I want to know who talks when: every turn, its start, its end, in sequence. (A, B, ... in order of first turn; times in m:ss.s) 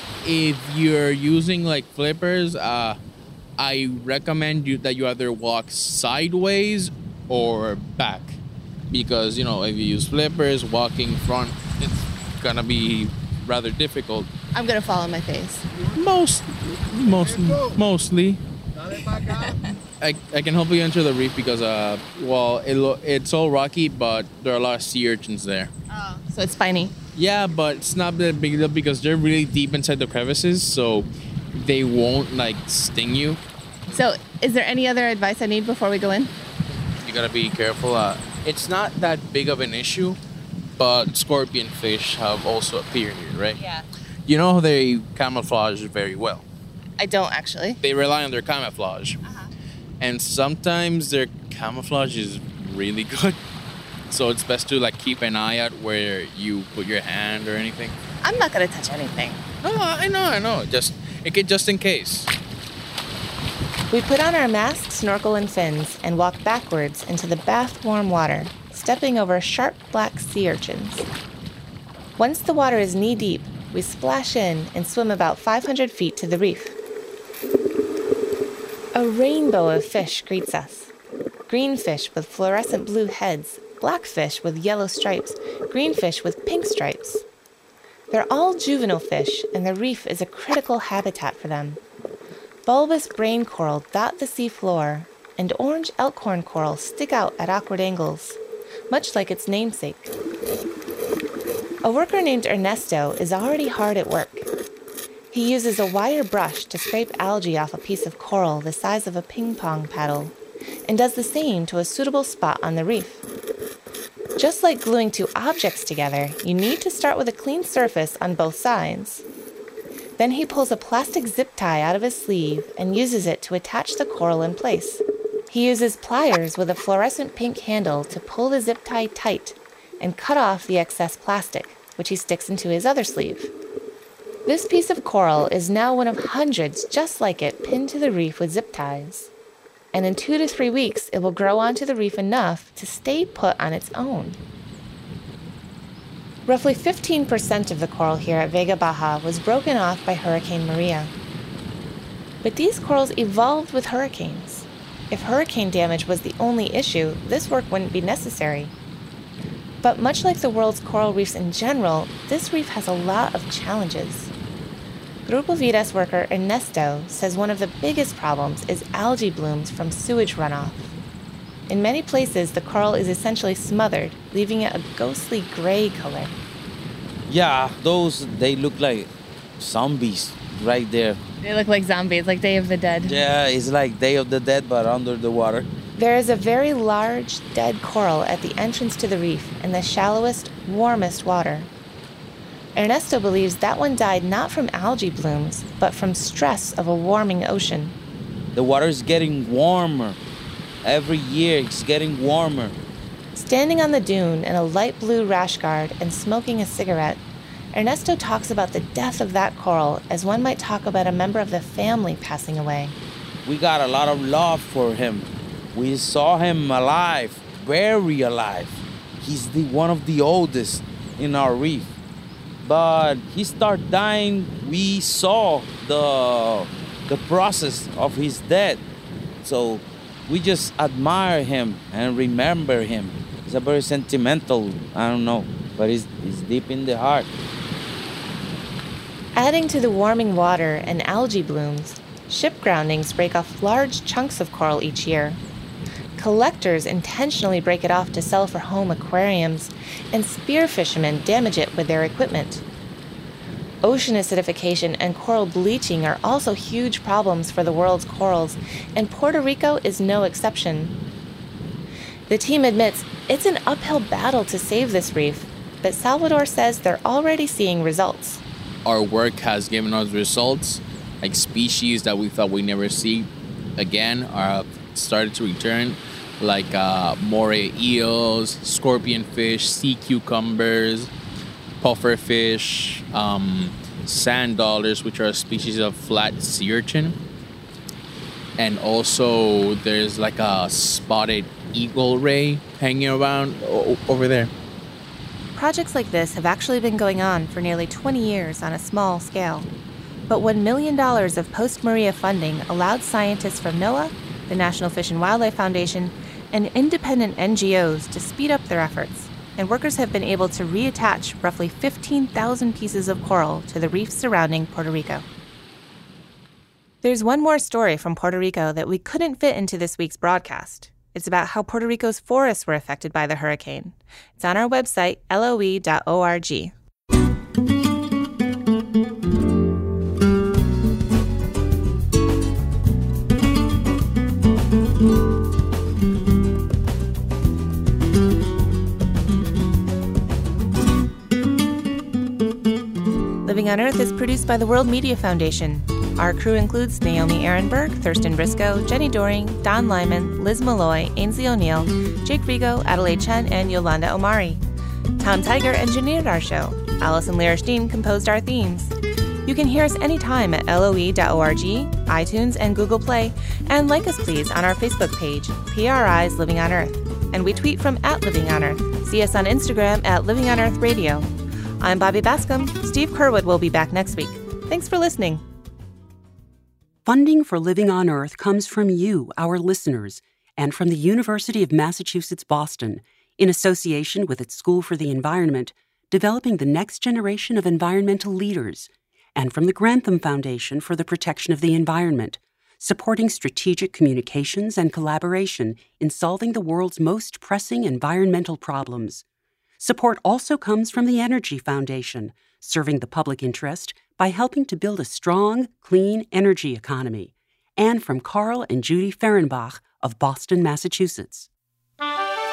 0:00.2-0:03.0 A
0:03.6-0:14.3 A
0:14.5-0:15.6 B
0:15.9-0:18.4 A
0:20.0-0:25.7 A
0:26.3-0:26.9 B
0:27.1-0:33.4 A
0:33.9-0:36.3 B
0:37.0-0:40.2 A
0:40.8-0:43.6 A
0:44.2-0:46.4 A
0:47.0-0:47.8 B
0:47.8-0:49.2 A
0:50.0-0:53.4 A
0:54.1-0:58.0 A
0:58.2-0:59.4 B
0:59.6-1:02.3 A
1:03.9-1:11.0 B
1:12.2-1:16.8 B
1:18.9-1:20.9 B
1:21.5-1:27.2 B
1:28.1-1:31.8 B
1:32.6-1:38.4 B
1:38.9-1:40.1 B
1:41.8-1:44.5 B
1:45.3-1:50.3 B
1:50.8-1:53.2 B
1:54.4-1:59.2 B
2:00.2-2:13.5 B
2:14.4-2:19.3 B
2:19.9-2:24.4 B
2:26.4-2:31.1 B
2:32.4-2:38.7 B
2:39.8-2:44.3 B
2:45.2-2:50.9 B
2:51.7-2:56.4 B
2:57.3-3:01.2 C
3:01.4-3:03.2 B
3:03.0-3:05.7 C
3:06.0-3:11.7 B
3:12.8-3:17.9 B
3:18.5-3:20.2 C
3:20.8-3:22.8 C
3:23.3-3:27.2 B
3:27.7-3:33.0 B
3:33.4-3:41.9 C
3:42.6-3:48.8 C
3:49.4-3:57.3 C
3:59.3-4:05.4 B
4:06.2-4:12.6 B
4:13.8-4:20.9 B
4:22.3-4:28.4 B
4:28.8-4:41.1 A
4:41.8-4:47.2 A
4:48.6-4:54.5 A
4:55.5-4:59.7 B
5:00.3-5:15.2 B
5:17.0-5:26.7 B
5:43.4-5:54.6 B
5:55.2-5:58.9 B
5:59.4-6:15.4 B
6:17.0-6:39.2 D
6:39.8-6:51.5 D